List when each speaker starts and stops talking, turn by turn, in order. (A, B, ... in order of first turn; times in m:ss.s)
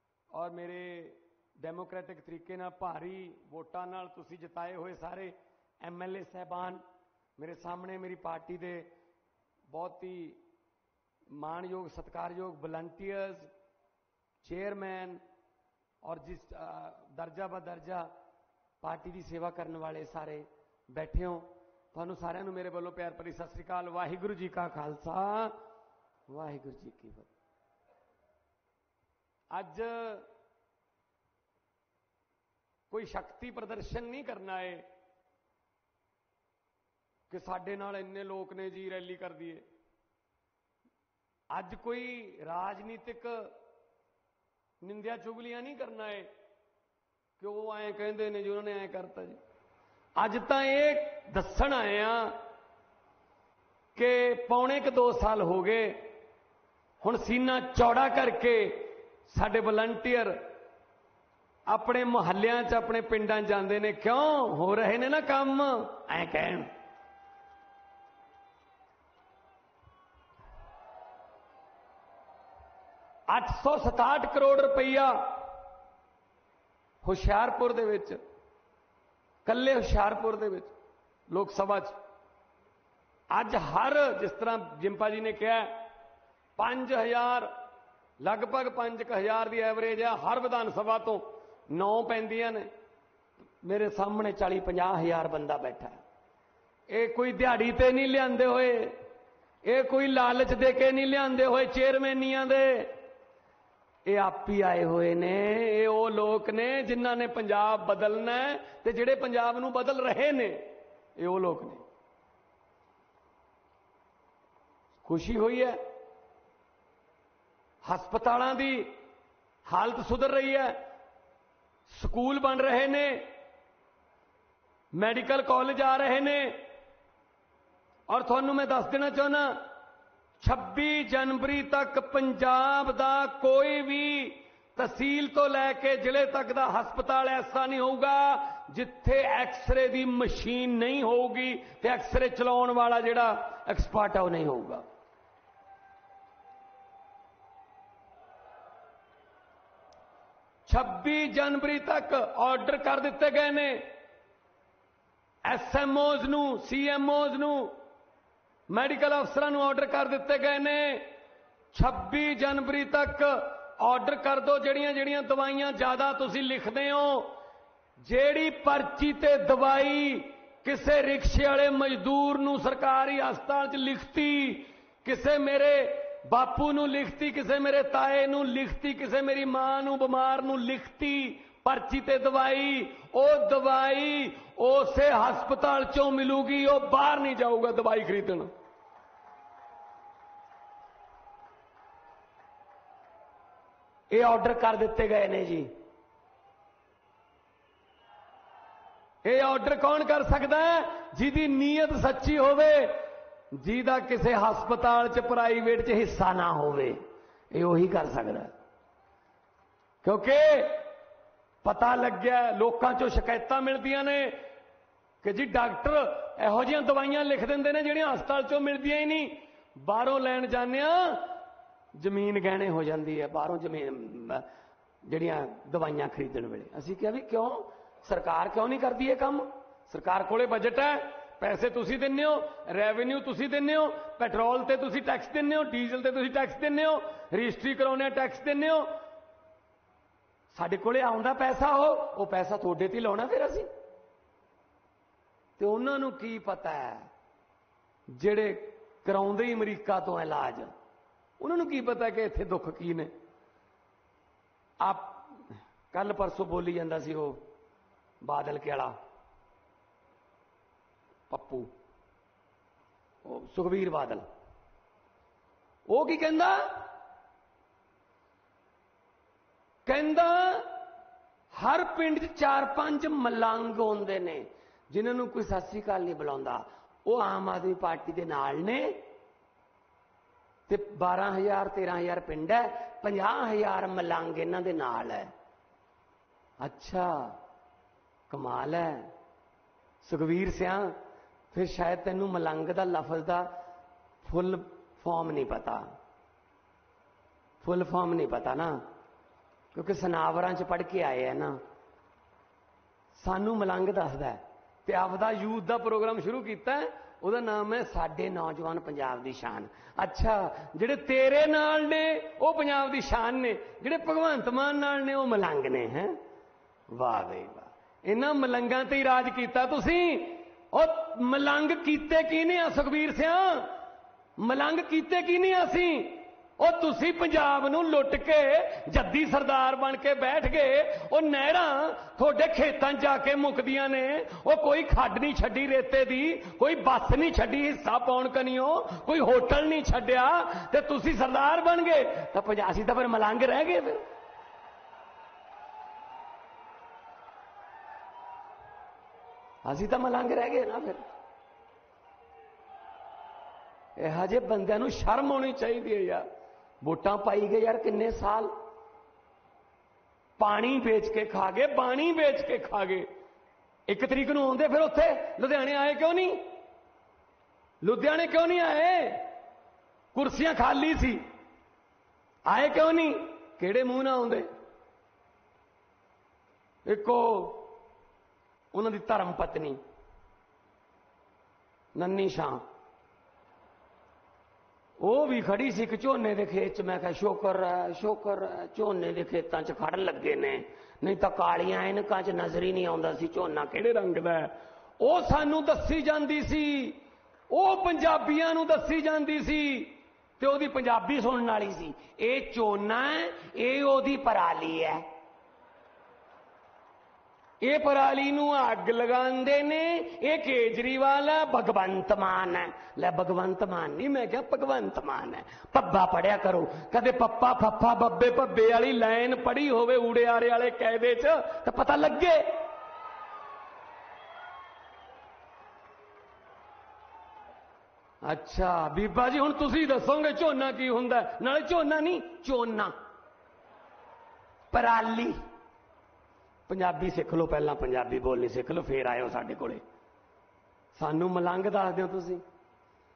0:00.3-0:06.8 A
0:07.4-0:08.9 A
0:09.7-0:10.4 A
0:11.3-0:13.5 A
0:14.4-0:15.2 A
0:16.0-0:18.1 A
0:18.8-0:25.6 A
0:26.3-0:27.3 A
0:29.5-0:30.3 A
0:32.9-0:34.9 A
0:37.3-0:39.6 A
0:41.5-0:43.5 A
0:44.8-0:46.3 A
0:47.4-0:49.4 A
0:50.2-0:52.4 A
0:53.9-0:56.1 A
0:57.0-1:00.4 A
1:01.7-1:06.7 A
1:13.3-1:15.5 A
1:17.0-1:18.2 A
1:19.4-1:20.7 A
1:21.3-1:22.0 A
1:23.3-1:25.9 A
1:26.6-1:27.5 A
1:28.2-1:32.7 A
1:33.6-1:36.0 A
1:36.9-1:39.0 A
1:39.6-1:43.0 A
1:44.0-1:51.8 A
1:55.0-1:55.8 A
1:57.8-1:59.0 A
1:59.6-2:00.8 A
2:01.9-2:03.3 A
2:04.9-2:06.6 A
2:08.1-2:09.7 A
2:10.4-2:24.8 A
2:30.6-2:33.9 A
2:35.4-2:37.8 A
2:38.7-2:41.1 A
2:41.7-2:47.4 A
2:48.0-3:08.5 A
3:14.1-3:15.8 A
3:19.2-3:28.5 A
3:30.0-3:30.9 A
3:31.6-3:34.4 A
3:35.2-3:41.4 A
3:41.9-3:44.4 A
3:45.0-3:58.9 A
4:00.5-4:03.7 A
4:05.6-4:07.1 A
4:08.1-4:10.7 A
4:11.4-4:13.1 A
4:14.8-4:17.5 A
4:18.2-4:19.0 A
4:21.3-4:21.7 A
4:23.2-4:24.3 A
4:25.9-4:26.9 A
4:29.8-4:30.8 A
4:31.5-4:39.0 A
4:40.7-4:45.3 A
4:46.6-4:47.4 A
4:48.3-4:49.1 A
4:50.0-4:53.5 A
4:54.2-4:55.8 A
4:57.6-4:58.9 A
4:59.7-5:01.6 A
5:03.1-5:16.2 A
5:16.9-5:23.8 A
5:24.4-5:44.0 A
5:49.6-5:51.0 A
5:54.0-5:56.2 A
5:56.8-5:58.6 A
6:00.4-6:03.1 A
6:03.9-6:06.5 A
6:07.8-6:09.3 A
6:10.1-6:11.2 A
6:12.4-6:14.5 A
6:16.8-6:17.8 A
6:18.7-6:19.8 A
6:21.9-6:22.6 A
6:25.0-6:45.1 A
6:47.6-7:02.7 A
7:08.2-7:12.9 A
7:14.7-7:15.4 A
7:16.7-7:19.8 A
7:20.9-7:22.4 A